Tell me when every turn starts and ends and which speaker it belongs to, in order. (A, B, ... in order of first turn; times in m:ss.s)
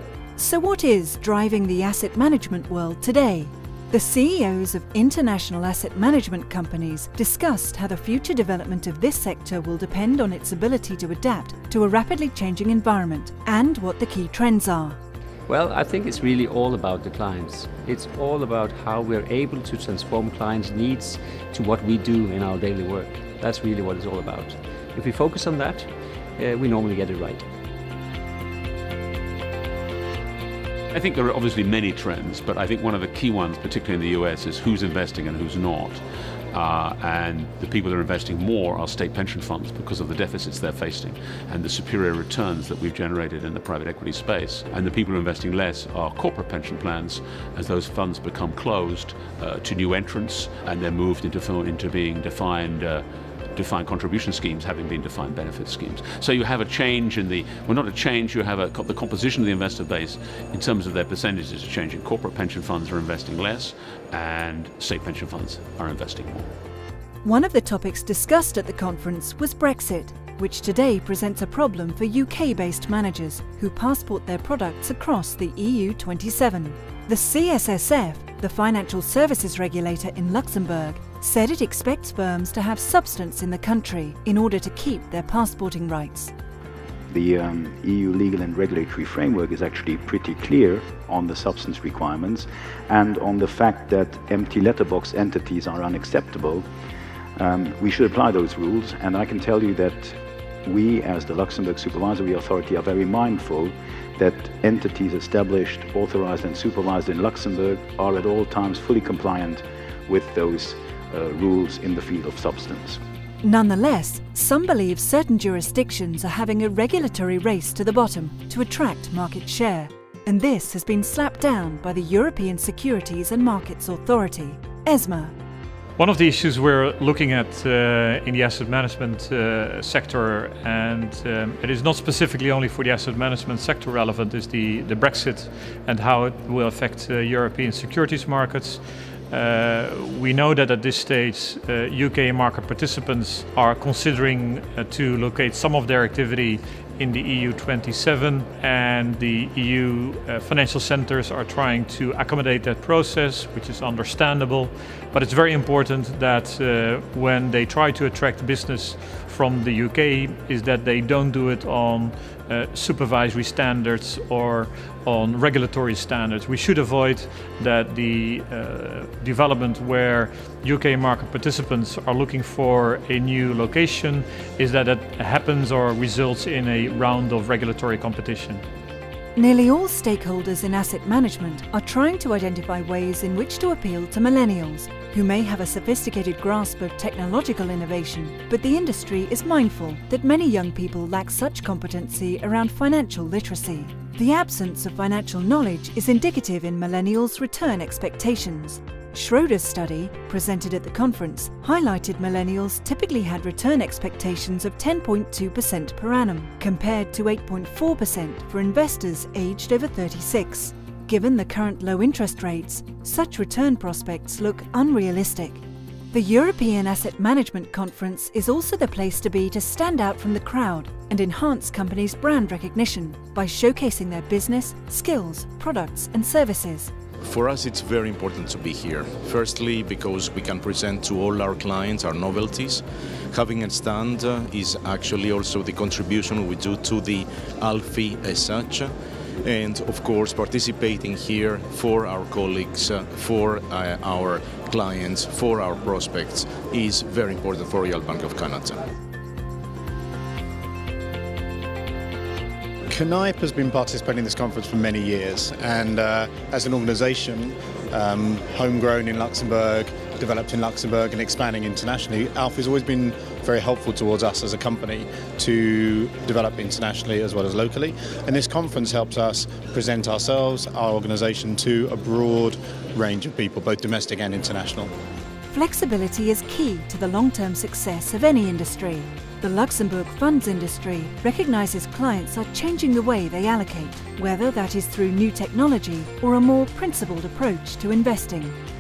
0:00.4-0:15.0 A
0:15.5-0:27.5 B
0:30.9-0:36.0 C
0:36.5-1:06.5 C
1:07.2-1:26.3 A
1:27.1-1:36.7 D
1:37.4-1:53.0 D
1:53.4-2:05.3 A
2:06.0-2:58.6 E
2:59.4-3:46.9 A
3:47.2-4:08.8 F
4:12.9-4:34.9 G
4:35.5-4:48.6 A